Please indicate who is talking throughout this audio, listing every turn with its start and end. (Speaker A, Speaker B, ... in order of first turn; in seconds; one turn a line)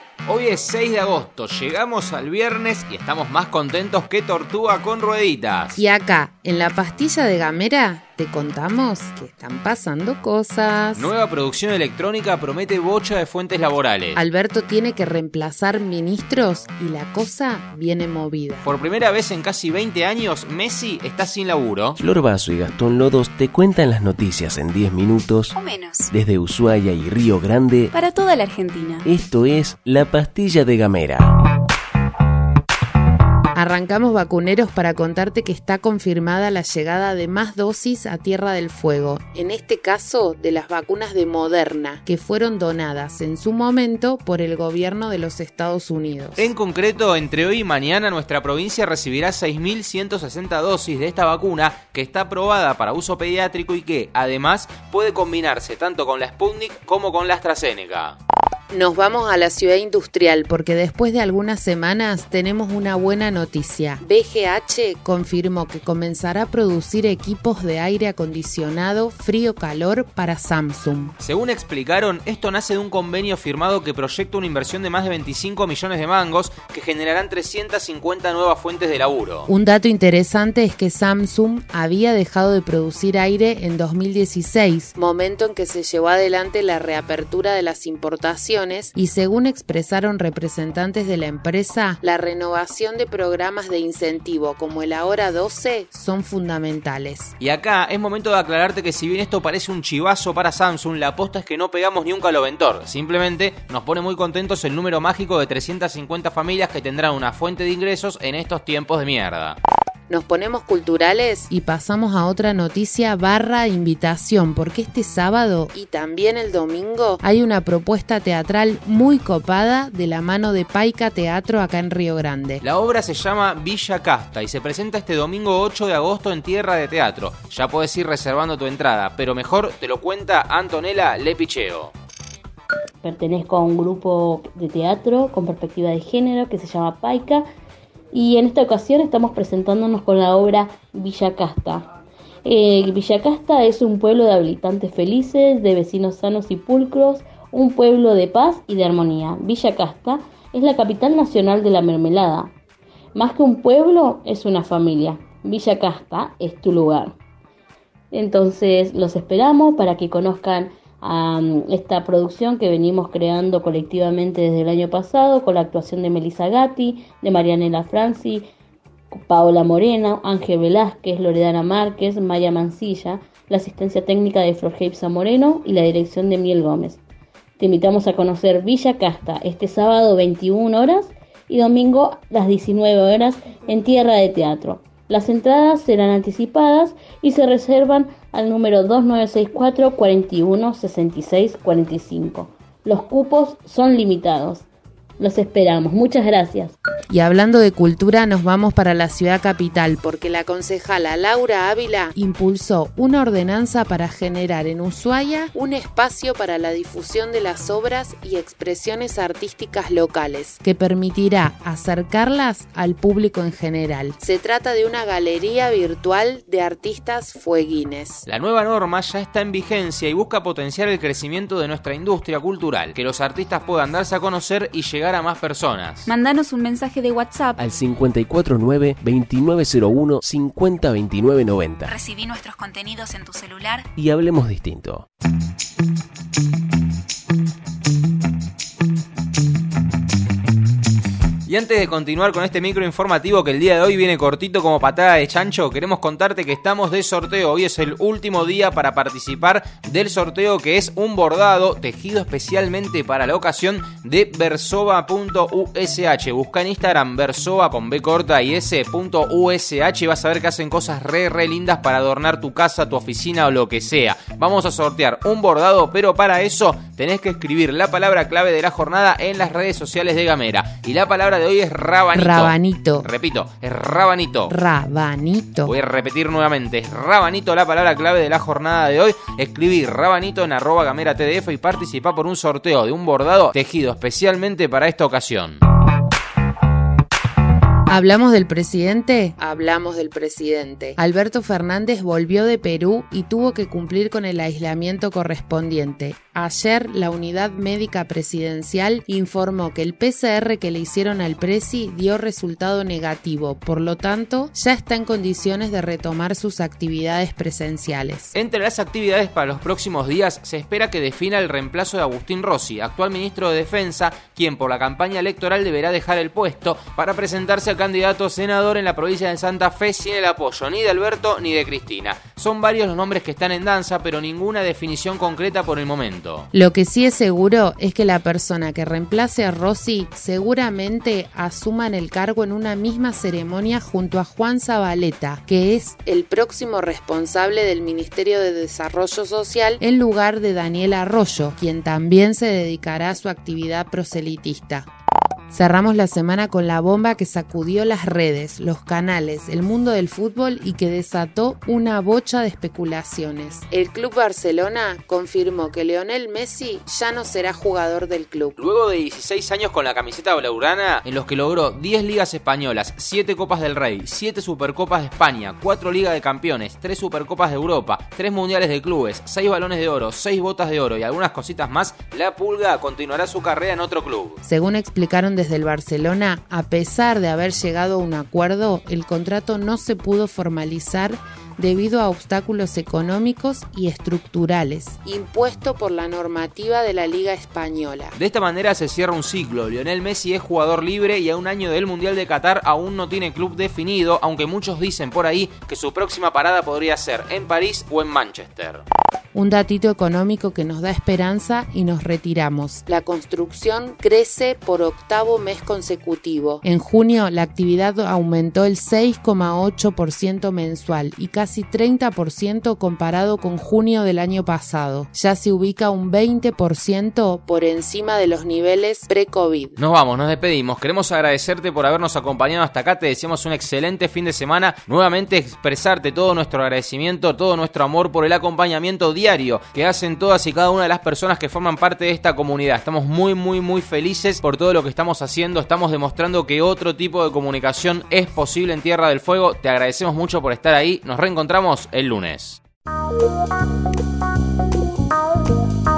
Speaker A: 0.3-5.8
Speaker B: 5.8-11.1
Speaker A: 10.9-14.2
Speaker B: 14.1-18.7
Speaker A: 18.6-22.0
Speaker C: 22.0-25.5
Speaker D: 25.5-26.1
Speaker C: 26.1-27.9
Speaker D: 27.9-29.1
Speaker C: 29.1-31.3
Speaker B: 33.5-46.5
Speaker A: 46.4-58.2
Speaker B: 58.7-71.1
Speaker A: 71.2-79.5
Speaker B: 79.5-97.3
Speaker A: 97.4-109.6
Speaker B: 110.1-122.6
Speaker A: 122.6-131.9
Speaker E: 133.0-137.4
Speaker E: 138.1-141.9
Speaker E: 142.4-152.5
Speaker E: 153.1-157.1
Speaker E: 158.1-168.4
Speaker E: 169.1-177.0
Speaker E: 177.6-194.6
Speaker E: 195.2-196.7
Speaker B: 197.1-218.2
Speaker A: 218.2-226.1
Speaker D: 226.0-227.6
Speaker C: 227.6-231.9
Speaker D: 231.9-233.9
Speaker C: 233.9-235.0
Speaker A: 241.5-274.5
Speaker B: 272.1-273.1
Speaker B: 274.5-275.7
Speaker A: 275.6-285.6
Speaker B: 287.9-308.3
Speaker A: 308.3-326.5
Speaker B: 326.5-344.9
Speaker B: 345.5-358.6
Speaker A: 358.6-374.4
Speaker B: 374.4-388.1
Speaker A: 388.1-398.8
Speaker B: 399.3-419.8
Speaker A: 419.8-442.6